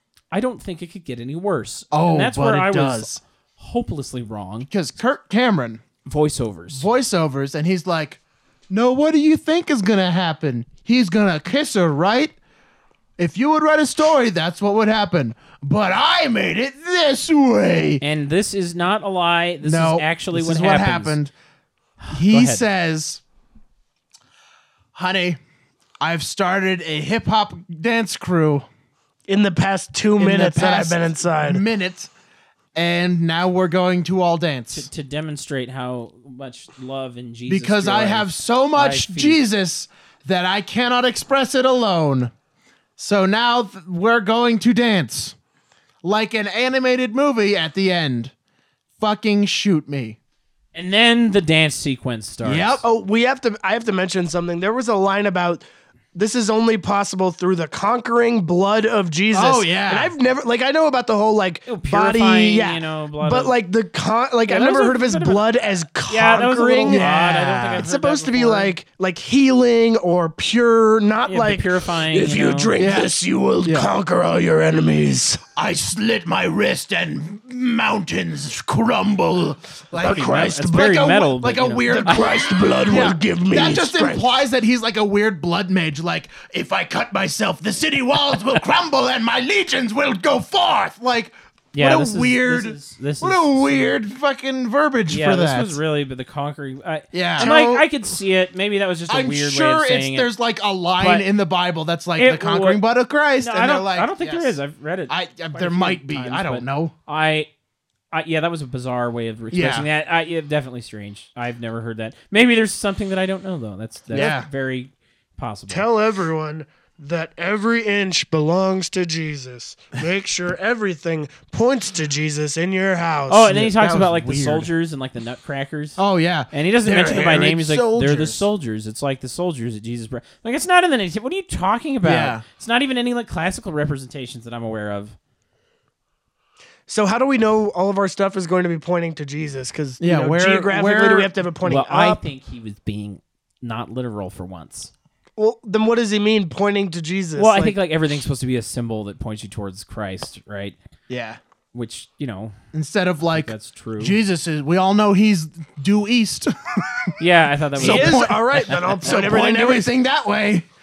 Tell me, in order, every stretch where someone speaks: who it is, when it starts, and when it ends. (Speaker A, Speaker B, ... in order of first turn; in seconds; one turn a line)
Speaker A: 0.3-4.7
Speaker B: 1.9-3.2
Speaker B: 4.7-5.8
Speaker A: 6.0-6.9
Speaker B: 6.7-12.3
Speaker B: 13.2-18.0
Speaker A: 18.0-21.2
Speaker B: 19.6-21.3
Speaker A: 22.0-22.6
Speaker B: 22.1-23.2
Speaker B: 24.9-25.4
Speaker B: 26.0-28.7
Speaker C: 29.3-31.6
Speaker B: 30.2-32.1
Speaker B: 32.8-34.9
Speaker A: 34.7-39.4
Speaker B: 37.5-42.3
Speaker B: 43.0-45.4
Speaker B: 46.0-48.3
Speaker B: 49.0-50.2
Speaker A: 50.7-52.8
Speaker B: 52.4-52.8
Speaker C: 52.8-67.2
Speaker B: 59.3-60.1
Speaker A: 61.7-63.5
Speaker A: 64.5-65.5
Speaker A: 66.1-68.7
Speaker B: 66.8-67.9
Speaker C: 67.8-75.4
Speaker A: 71.3-72.8
Speaker B: 72.8-73.1
Speaker B: 73.7-73.9
Speaker B: 75.6-95.8
Speaker C: 80.0-80.9
Speaker A: 80.0-82.3
Speaker C: 81.9-84.2
Speaker A: 91.7-94.0
Speaker A: 95.1-100.3
Speaker B: 97.1-97.9
Speaker B: 99.1-104.5
Speaker A: 101.0-101.3
Speaker A: 102.2-102.8
Speaker A: 103.4-107.5
Speaker B: 105.1-106.9
Speaker A: 108.1-115.9
Speaker B: 109.5-109.9
Speaker B: 114.1-114.5
Speaker C: 115.7-123.6
Speaker A: 123.3-126.0
Speaker B: 123.5-124.7
Speaker B: 126.0-128.5
Speaker A: 126.5-135.2
Speaker B: 132.0-132.4
Speaker C: 136.9-142.2
Speaker B: 140.0-141.3
Speaker A: 141.6-144.9
Speaker C: 145.4-147.8
Speaker A: 147.4-150.8
Speaker B: 151.1-151.4
Speaker A: 151.7-152.6
Speaker B: 152.7-157.2
Speaker A: 153.3-154.2
Speaker A: 157.2-159.0
Speaker B: 157.8-160.7
Speaker C: 157.8-159.9